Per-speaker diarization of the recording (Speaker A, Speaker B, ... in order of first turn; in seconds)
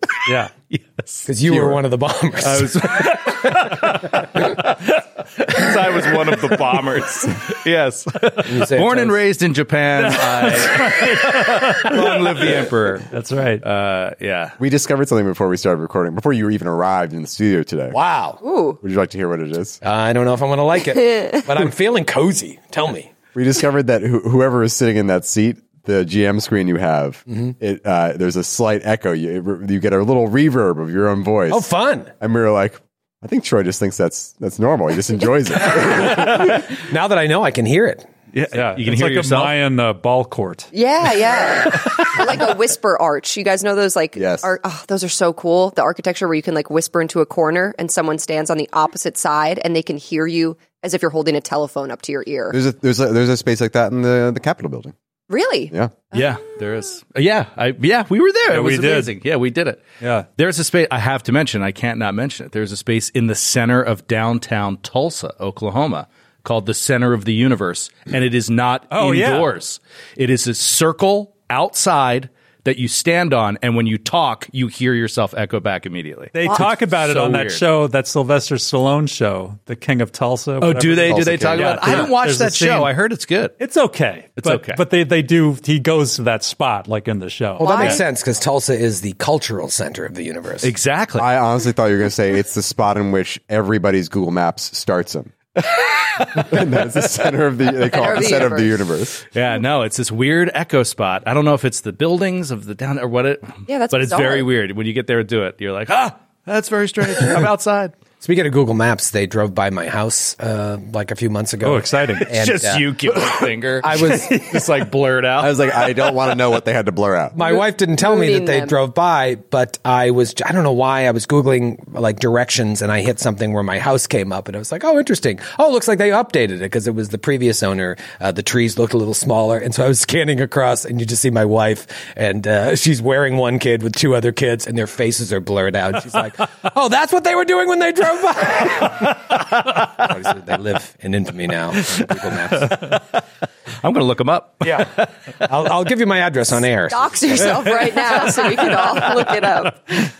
Speaker A: 0.2-0.5, 10.1-11.9, 13.1-13.6, 38.5-40.7, 58.5-59.1, 60.0-60.2, 68.9-69.5, 76.3-82.9, 83.6-88.0, 111.6-112.3
Speaker B: 0.7-1.8, 2.4-13.1, 13.6-14.6, 38.3-39.5, 56.1-59.8, 60.4-77.6, 80.6-83.6, 84.4-84.8, 90.6-91.3, 99.3-107.9, 112.2-116.3, 143.8-145.1
Speaker C: 1.2-3.8, 8.4-9.2, 11.9-12.8, 17.9-18.4, 19.8-23.1, 31.5-32.1, 36.1-38.1, 87.6-90.7, 108.2-114.6, 117.3-143.0, 144.6-144.9, 145.4-147.9
Speaker D: 14.6-18.0, 18.8-19.8, 23.3-31.7, 32.2-36.6, 44.1-44.5, 52.5-54.9, 81.1-81.9, 91.2-95.3, 96.2-99.2, 115.4-117.4
Speaker E: 18.4-18.8, 21.1-21.4, 40.7-52.6, 55.3-56.4, 87.6-88.0, 97.8-98.8, 103.7-104.5, 117.4-118.8, 146.9-149.8